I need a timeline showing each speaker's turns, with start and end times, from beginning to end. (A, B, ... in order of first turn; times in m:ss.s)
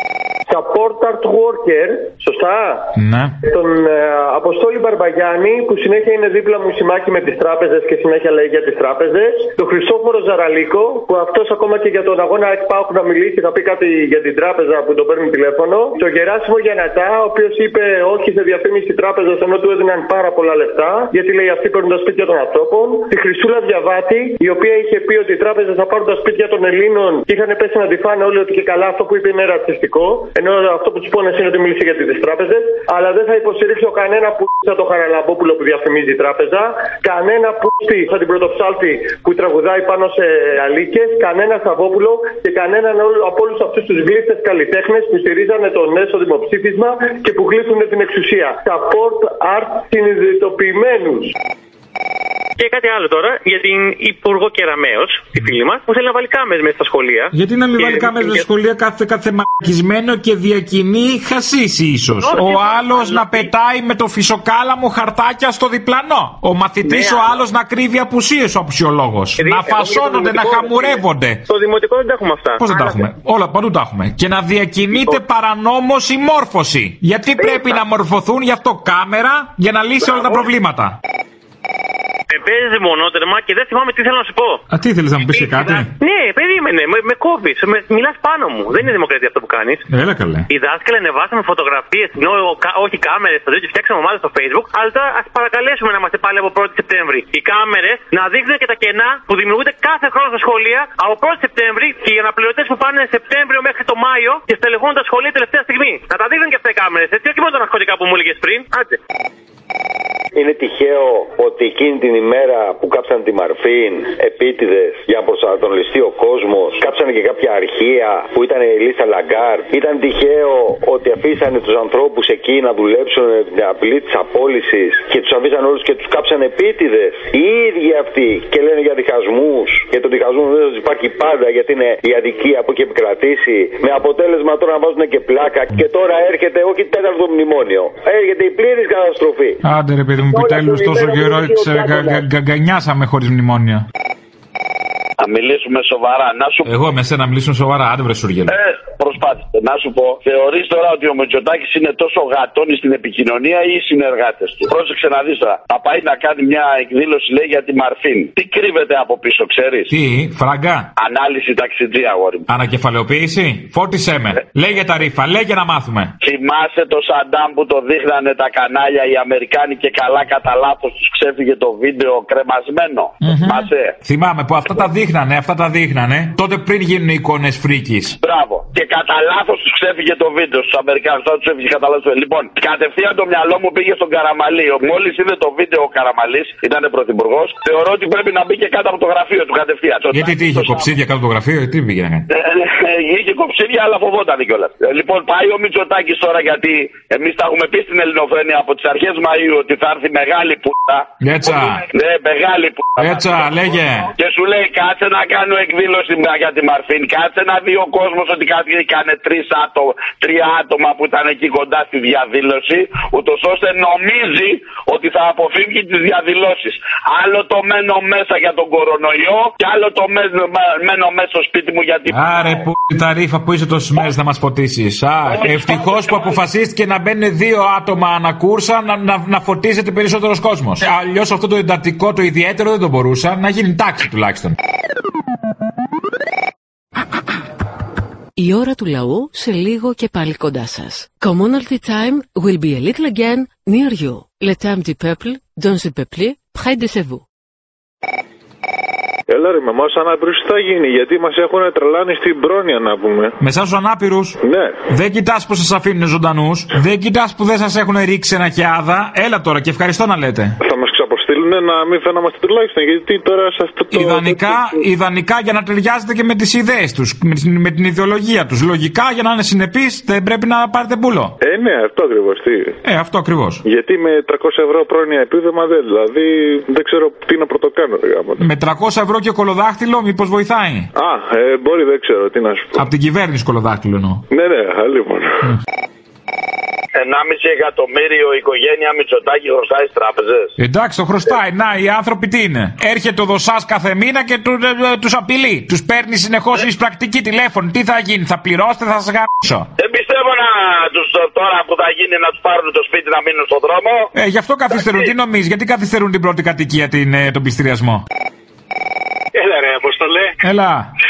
0:00.5-0:02.9 A
0:03.0-0:03.4 B
0:03.4-0:51.3 A
0:52.6-0:58.4 C
0:57.3-1:11.4 B
1:02.2-1:03.5 C
1:06.8-1:07.4 C
1:09.4-1:13.0 C
1:12.6-1:21.0 B
1:14.9-1:15.2 C
1:22.3-1:24.6 C
1:24.7-1:25.9 B
1:25.3-1:29.8 C
1:29.9-1:30.5 B
1:30.5-1:48.8 C
1:50.4-2:19.6 D
2:19.6-2:23.8 B
2:25.2-2:26.7 E
2:26.6-2:28.5 B
2:29.0-2:39.9 E
2:39.9-2:40.9 B
2:41.0-2:42.4 E
2:42.5-2:46.1 B
2:46.2-2:53.9 E
2:53.2-2:58.2 B
2:58.2-3:10.8 E
3:10.1-3:12.2 B
3:12.9-3:21.0 E
3:21.2-3:21.8 B
3:21.9-3:23.3 E
3:23.0-3:24.1 B
3:24.2-3:42.4 E
3:42.1-3:54.6 B
3:58.4-4:07.2 F
4:09.3-4:13.3 G
4:13.4-4:14.4 B
4:14.4-4:14.8 G
4:14.9-4:20.6 B
4:20.6-4:24.8 G
4:23.9-4:31.4 B
4:31.4-4:32.8 G
4:32.8-4:33.6 B
4:33.6-4:38.4 G
4:38.4-4:40.9 B
4:41.0-4:42.8 G
4:42.8-4:44.2 B
4:44.3-4:45.4 G
4:47.0-4:50.5 E
4:50.6-4:59.7 B
4:59.8-5:04.0 E
5:04.1-5:08.0 B
5:09.4-5:10.4 C
5:10.4-5:10.9 B